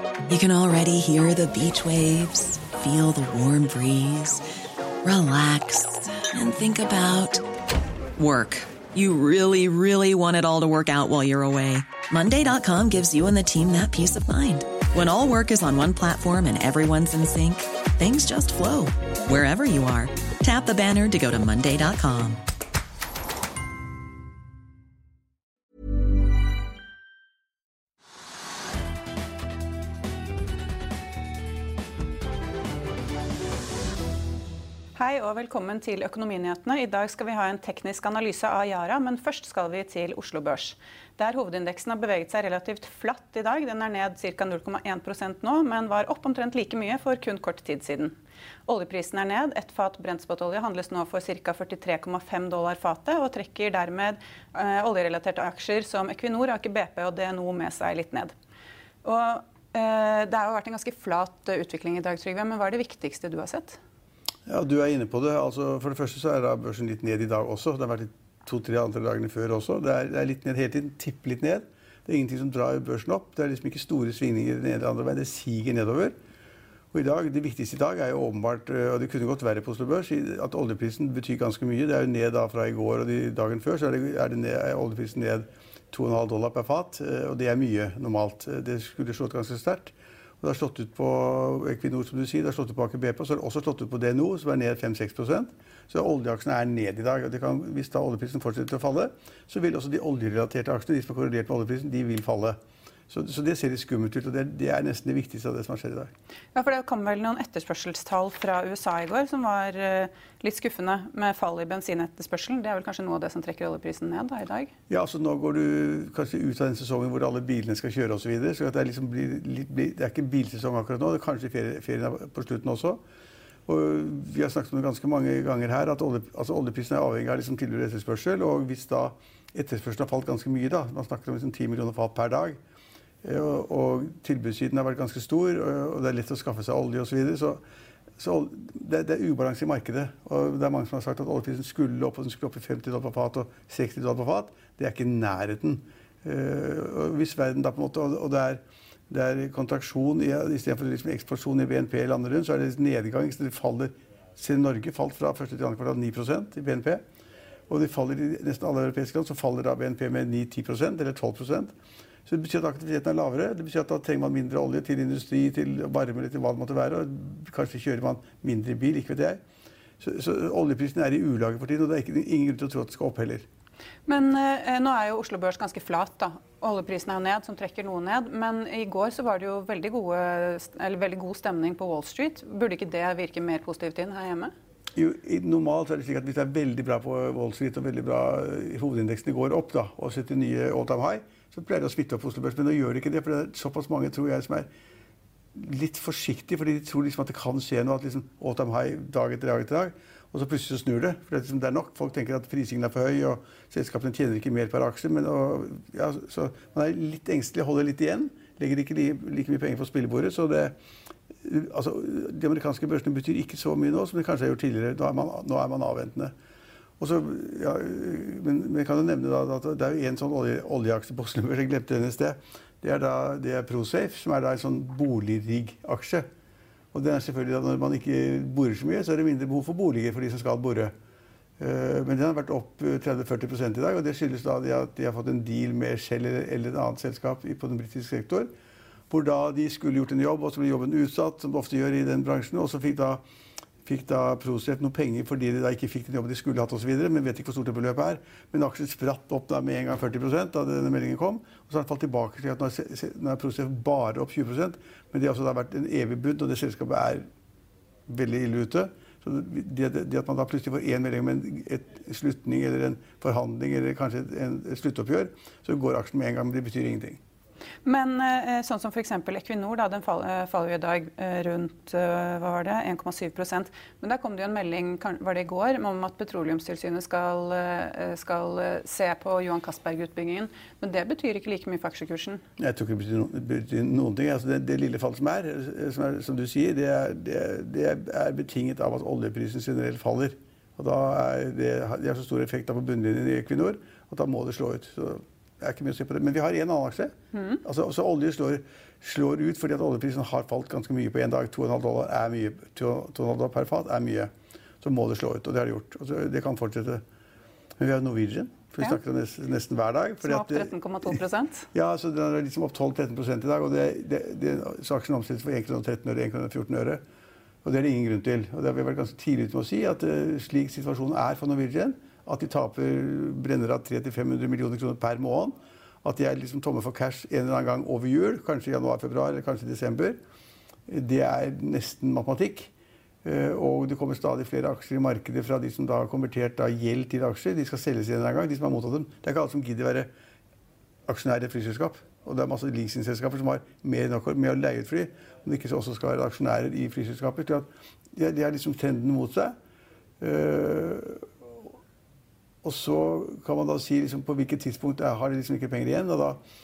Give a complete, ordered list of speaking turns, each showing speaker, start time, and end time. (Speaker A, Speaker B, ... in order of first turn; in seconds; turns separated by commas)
Speaker A: 0.3-4.4, Speaker A: 5.0-7.4, Speaker A: 8.2-22.4, Speaker B: 34.9-48.1, Speaker B: 48.7-58.3, Speaker B: 59.0-63.8, Speaker C: 64.5-76.1, Speaker C: 76.9-102.6, Speaker C: 103.1-106.1, Speaker B: 106.5-114.7, Speaker C: 114.9-123.0, Speaker C: 123.7-132.6, Speaker C: 133.2-137.6, Speaker C: 138.2-157.0, Speaker C: 157.7-161.7, Speaker C: 162.2-169.4, Speaker C: 170.0-173.4, Speaker B: 174.1-184.5, Speaker C: 184.9-194.7, Speaker C: 195.5-210.7, Speaker C: 211.4-216.3, Speaker C: 217.0-226.3, Speaker C: 226.9-230.9, Speaker C: 231.6-238.5, Speaker C: 239.1-243.2, Speaker C: 243.8-257.2, Speaker C: 258.1-267.2, Speaker B: 267.8-282.4, Speaker C: 282.6-304.3, Speaker B: 297.3-297.6, Speaker C: 304.8-307.0, Speaker C: 307.8-311.2, Speaker B: 310.2-311.6, Speaker C: 311.7-317.0, Speaker C: 317.6-330.2, Speaker C: 330.9-332.7, Speaker C: 333.2-340.1, Speaker C: 341.1-349.5, Speaker C: 350.2-351.2, Speaker C: 352.6-356.4